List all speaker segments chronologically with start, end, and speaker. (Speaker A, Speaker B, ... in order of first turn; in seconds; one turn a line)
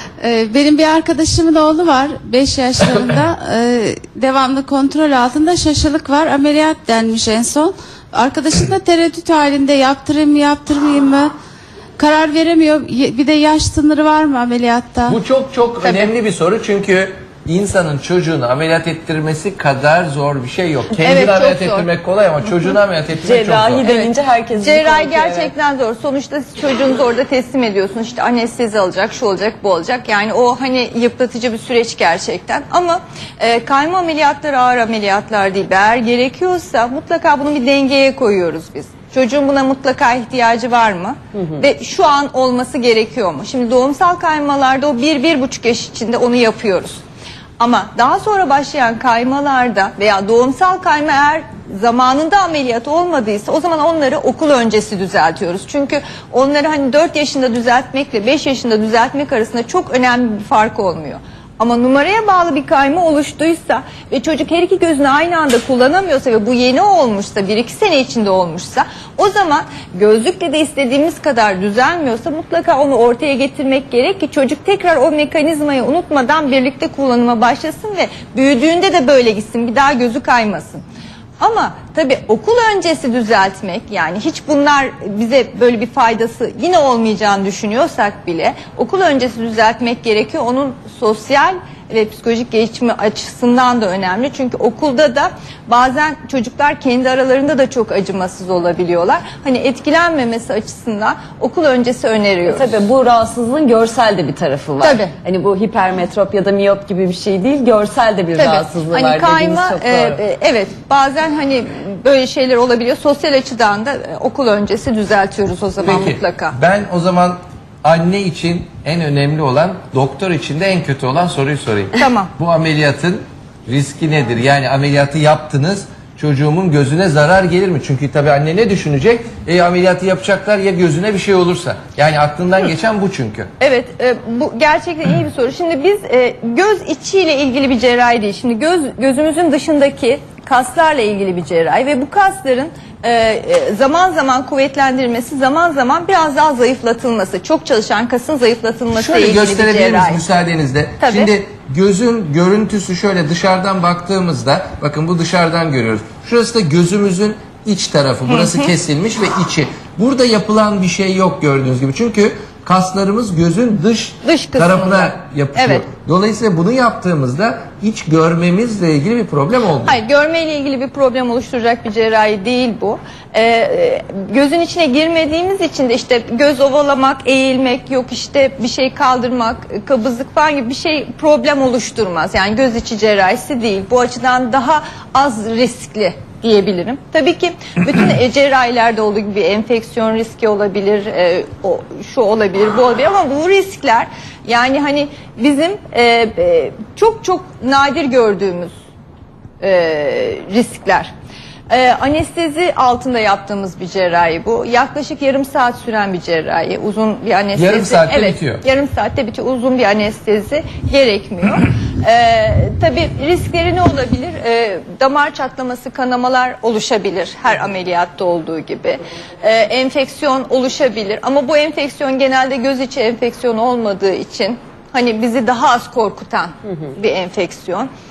Speaker A: 0.2-11.3
Speaker A: 12.0-15.2
Speaker B: 15.1-23.9
Speaker C: 21.0-21.9
Speaker D: 23.2-25.5
Speaker C: 23.9-47.0
Speaker C: 47.6-80.8
Speaker C: 81.4-102.8
Speaker D: 102.5-110.2
Speaker C: 104.8-105.1
Speaker C: 108.4-116.6
Speaker B: 115.8-133.5
Speaker C: 122.0-122.3
Speaker C: 133.6-150.2
Speaker B: 148.9-169.9
Speaker C: 151.0-151.3
Speaker C: 158.3-158.7
Speaker C: 164.2-165.8
Speaker C: 169.8-198.7
Speaker C: 199.6-201.1
Speaker C: 201.7-227.9
Speaker B: 207.6-208.6